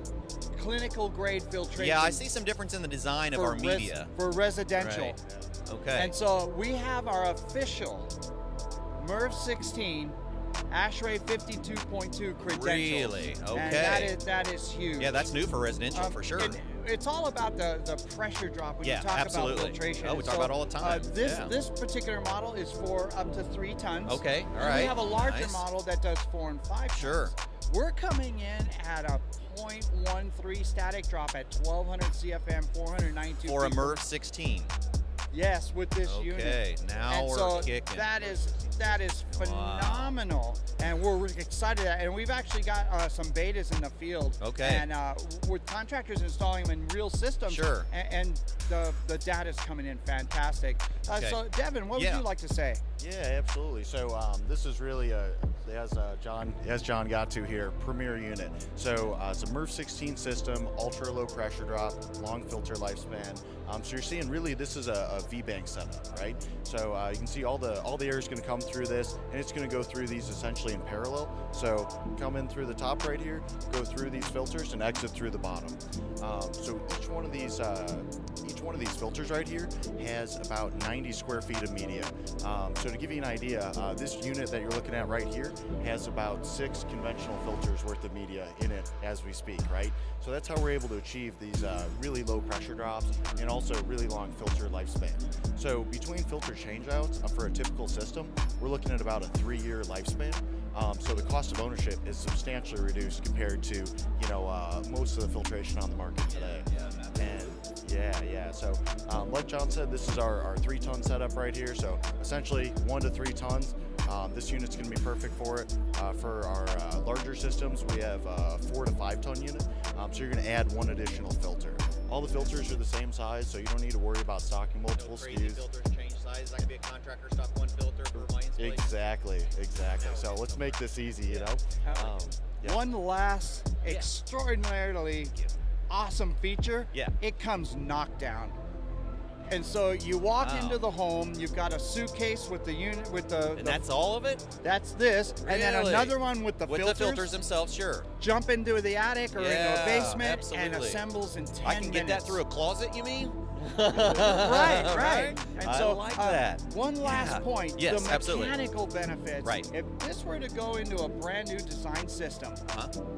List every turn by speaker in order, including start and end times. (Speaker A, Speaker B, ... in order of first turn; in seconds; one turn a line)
Speaker A: 0.5-2.2
Speaker B: 1.8-4.1
Speaker A: 3.3-5.2
Speaker B: 4.8-5.2
Speaker C: 5.2-5.5
Speaker B: 5.7-6.1
Speaker A: 5.9-8.1
Speaker A: 9.0-10.2
Speaker A: 10.7-15.3
Speaker B: 12.4-14.2
Speaker B: 15.0-16.6
Speaker A: 15.9-34.0
Speaker B: 18.8-21.5
Speaker B: 24.1-25.6
Speaker B: 26.9-27.3
Speaker B: 33.4-34.7
Speaker A: 35.3-52.8
Speaker B: 36.0-38.2
Speaker B: 39.3-40.1
Speaker B: 44.4-44.8
Speaker B: 47.5-47.9
Speaker B: 51.1-51.4
Speaker B: 51.9-52.2
Speaker C: 53.0-125.6
Speaker B: 106.3-107.5
Speaker B: 124.9-128.9
Speaker C: 128.2-132.8
Speaker B: 130.0-132.2
Speaker A: 132.6-135.3
Speaker B: 133.8-134.1
Speaker A: 135.9-138.6
Speaker A: 139.5-143.8
Speaker B: 140.4-140.8
Speaker B: 143.5-144.5
Speaker A: 144.6-147.3
Speaker B: 145.3-148.1
Speaker A: 148.2-152.4
Speaker B: 149.3-151.0
Speaker B: 151.6-158.6
Speaker A: 153.9-162.6